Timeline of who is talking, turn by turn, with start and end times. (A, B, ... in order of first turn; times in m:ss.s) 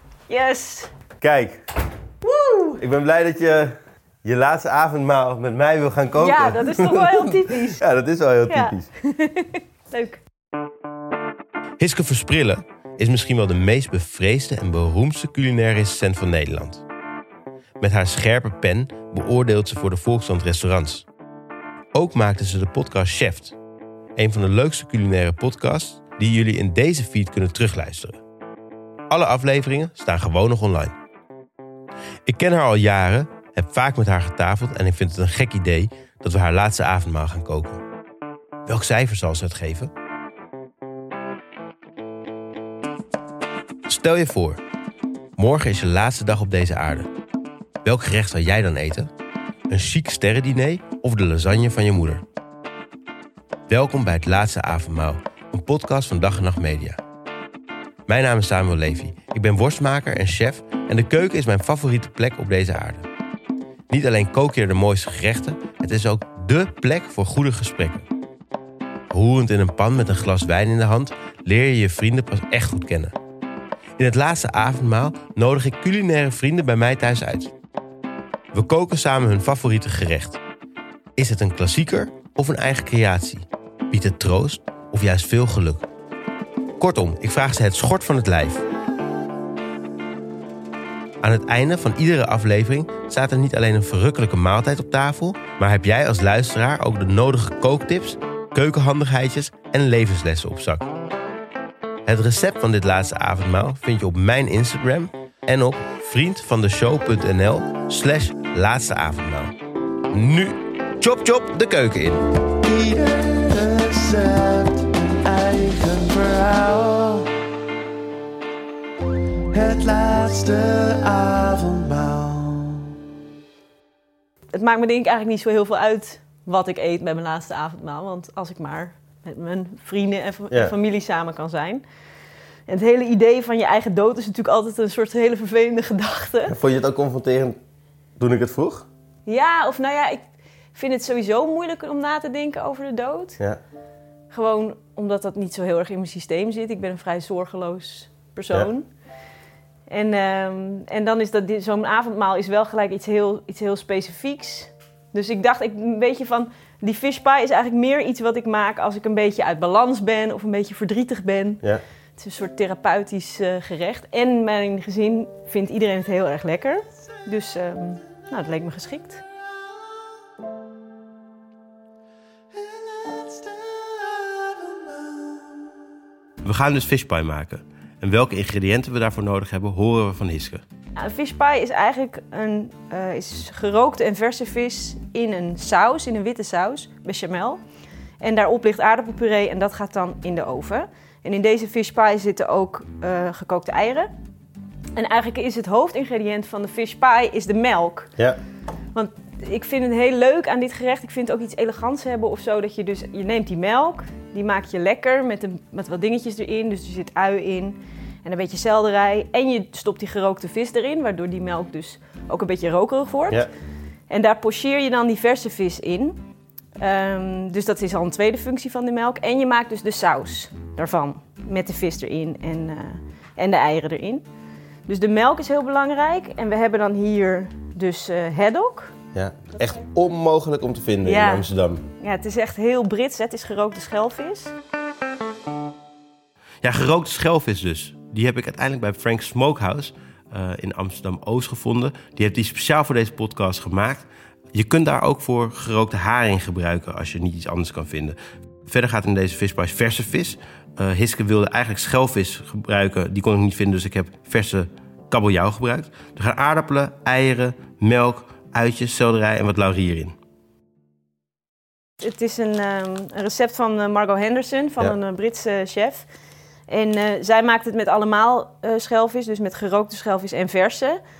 0:00.3-0:00.9 A
0:01.2-0:01.6 B
0:02.2-0:02.7 A
0:02.7-0:08.9 B
0:06.2-0:07.8 A
0:08.5-0:10.2 A
0:11.8-0:16.8 B
0:17.8-0:21.0 B
0:21.9-0:23.6 B
0:24.2-0:28.2 B
0:29.1-0:30.9 B
0:32.2-0:37.8 B
0:38.7-0:39.9 B
0:43.9-0:44.6 B
0:45.4-0:47.1 B
0:47.8-0:49.1 B
0:49.7-0:52.2 B
0:53.7-0:57.0 B
0:58.1-1:03.1 B
1:03.9-1:08.0 B
1:09.1-1:13.1 B
1:14.0-1:17.5 B
1:18.5-1:20.4 B
1:21.2-1:25.8 B
1:26.8-1:28.6 B
1:31.2-1:40.9 B
1:42.0-1:49.5 B
1:50.1-1:52.4 B
1:52.6-1:57.3 C
1:59.5-2:02.9 C
2:04.5-2:11.8 A
2:12.7-2:16.5 A
2:16.5-2:17.6 B
2:18.2-2:18.9 B
2:19.2-2:20.2 A
2:20.7-2:23.4 A
2:24.3-2:28.9 A
2:29.9-2:41.6 A
2:42.2-2:49.2 A
2:52.5-2:55.6 C
2:56.4-3:00.6 B
3:01.0-3:07.6 A
3:08.2-3:14.1 A
3:14.9-3:18.1 A
3:18.9-3:33.5 A
3:34.1-3:36.2 A
3:36.8-3:44.2 A
3:44.9-3:48.9 A
3:49.1-3:51.8 B
3:51.0-3:54.5 A
3:56.6-4:08.2 B
4:08.6-4:20.2 B
4:22.0-4:26.1 A
4:26.7-4:31.0 A